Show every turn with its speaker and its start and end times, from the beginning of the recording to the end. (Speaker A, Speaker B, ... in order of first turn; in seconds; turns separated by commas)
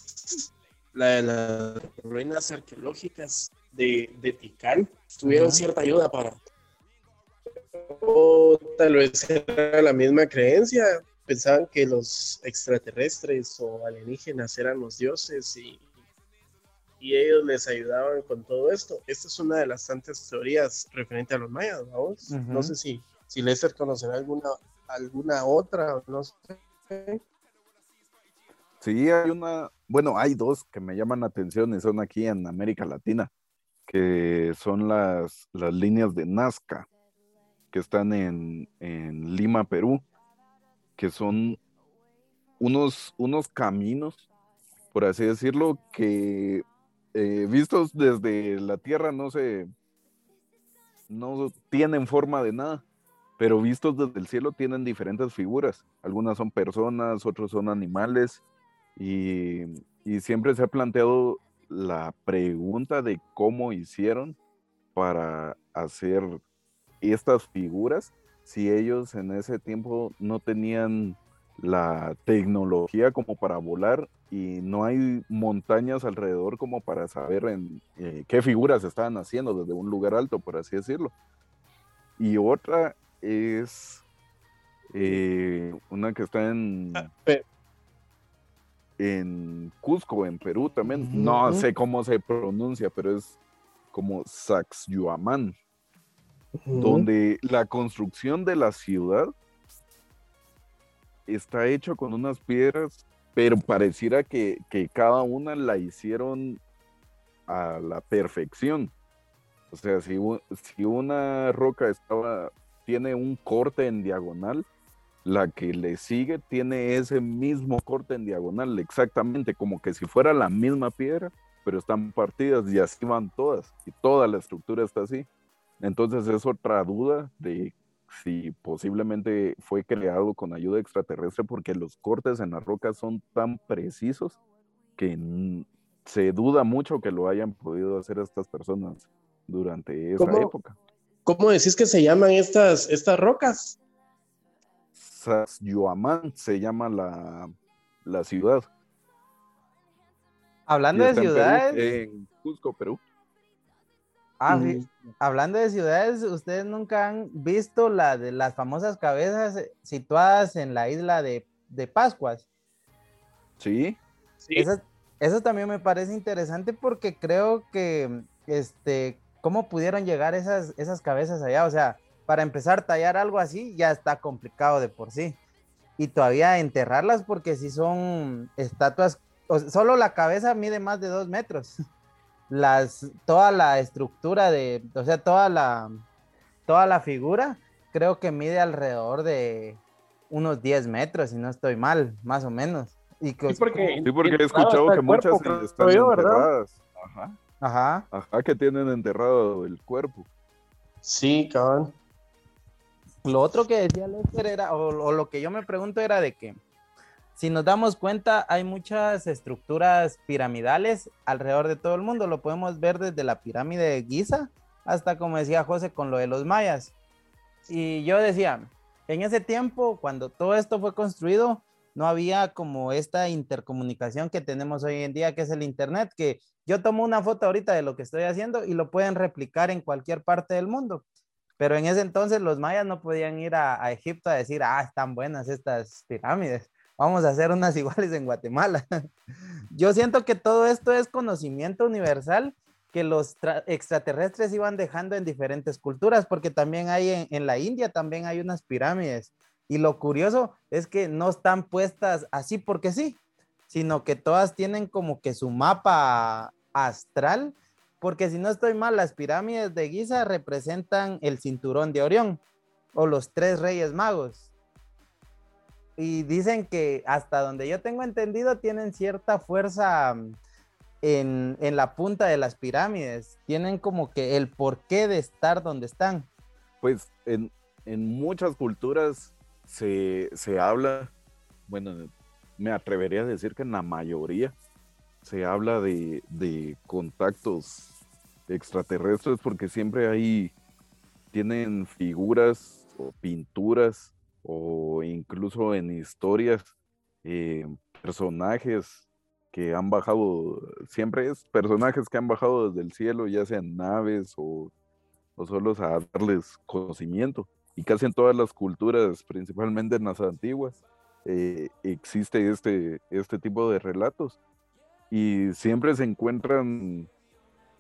Speaker A: 0.2-6.4, Speaker B: 5.2-5.6, Speaker A: 7.7-15.8, Speaker A: 17.0-27.2, Speaker B: 22.3-22.7, Speaker C: 28.8-33.3, Speaker C: 33.9-36.9, Speaker C: 37.7-40.0, Speaker C: 41.0-41.6, Speaker C: 42.6-44.3, Speaker C: 44.9-49.7, Speaker C: 51.1-52.8, Speaker C: 53.4-58.4, Speaker C: 59.0-64.4, Speaker C: 65.0-66.4, Speaker C: 67.0-81.1, Speaker C: 82.2-84.0, Speaker C: 84.9-87.1, Speaker A: 87.0-87.4, Speaker C: 89.0-93.4, Speaker A: 90.9-91.7, Speaker C: 93.9-95.5, Speaker A: 96.6-97.1, Speaker C: 96.8-99.3, Speaker C: 101.3-106.6, Speaker C: 107.5-108.9, Speaker C: 109.7-114.7, Speaker C: 115.2-125.3, Speaker C: 125.8-134.4, Speaker C: 135.0-140.8, Speaker A: 140.2-140.5, Speaker A: 141.3-143.8, Speaker C: 144.9-148.7, Speaker B: 150.7-151.8, Speaker C: 150.9-153.0, Speaker B: 154.4-162.4, Speaker A: 154.5-154.9, Speaker C: 163.6-164.0, Speaker B: 164.6-175.4, Speaker B: 176.0-181.8, Speaker B: 182.5-185.9, Speaker B: 186.7-194.0, Speaker A: 193.5-196.5, Speaker C: 194.0-197.4, Speaker B: 197.6-198.1, Speaker C: 198.1-200.3, Speaker A: 201.0-201.9, Speaker B: 203.2-206.6, Speaker B: 207.4-216.9, Speaker B: 217.7-231.0, Speaker B: 231.6-238.8, Speaker B: 239.7-253.2, Speaker B: 253.7-262.4, Speaker B: 262.9-264.4, Speaker B: 266.0-270.4, Speaker B: 271.0-276.3, Speaker C: 276.8-281.1, Speaker C: 281.7-284.6, Speaker C: 285.2-287.9, Speaker C: 288.5-290.5, Speaker C: 291.3-296.7, Speaker C: 297.2-304.7, Speaker C: 305.4-314.4, Speaker C: 315.1-317.1